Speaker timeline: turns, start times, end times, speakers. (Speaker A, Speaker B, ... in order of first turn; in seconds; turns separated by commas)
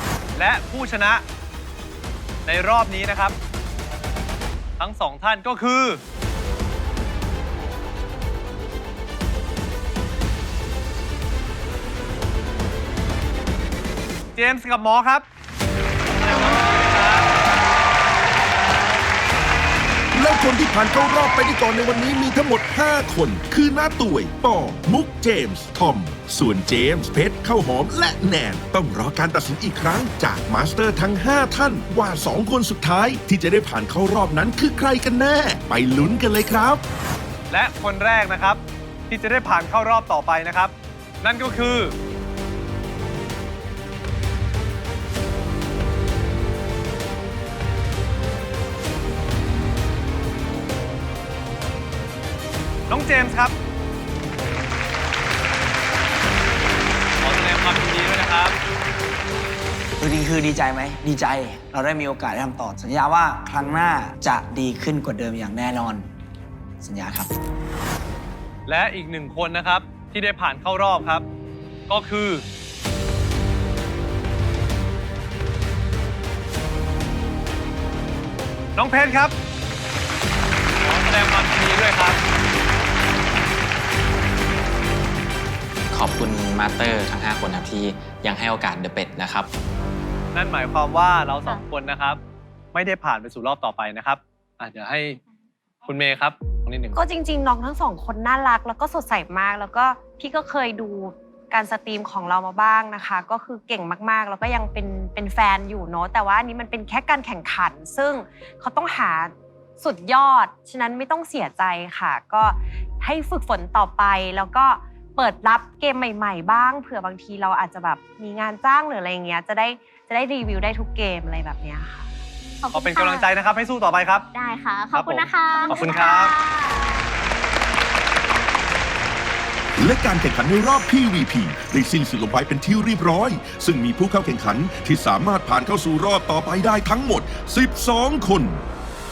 Speaker A: 0.3-1.2, Speaker A: 2.5-3.3, Speaker A: 4.8-6.0, Speaker A: 14.3-15.2, Speaker A: 16.2-17.3, Speaker B: 20.1-36.8, Speaker A: 37.5-41.9, Speaker A: 52.9-53.5, Speaker A: 57.2-58.5, Speaker C: 60.0-66.1, Speaker C: 66.8-67.3, Speaker A: 68.7-71.2, Speaker A: 71.9-72.4, Speaker A: 78.8-79.3, Speaker A: 80.8-82.2, Speaker D: 85.9-89.5, Speaker A: 90.3-92.2, Speaker A: 92.7-95.2, Speaker A: 95.8-97.0, Speaker E: 96.9-122.1, Speaker F: 122.6-123.3, Speaker A: 122.7-124.3, Speaker F: 124.3-126.8, Speaker A: 124.9-126.3, Speaker B: 129.8-138.6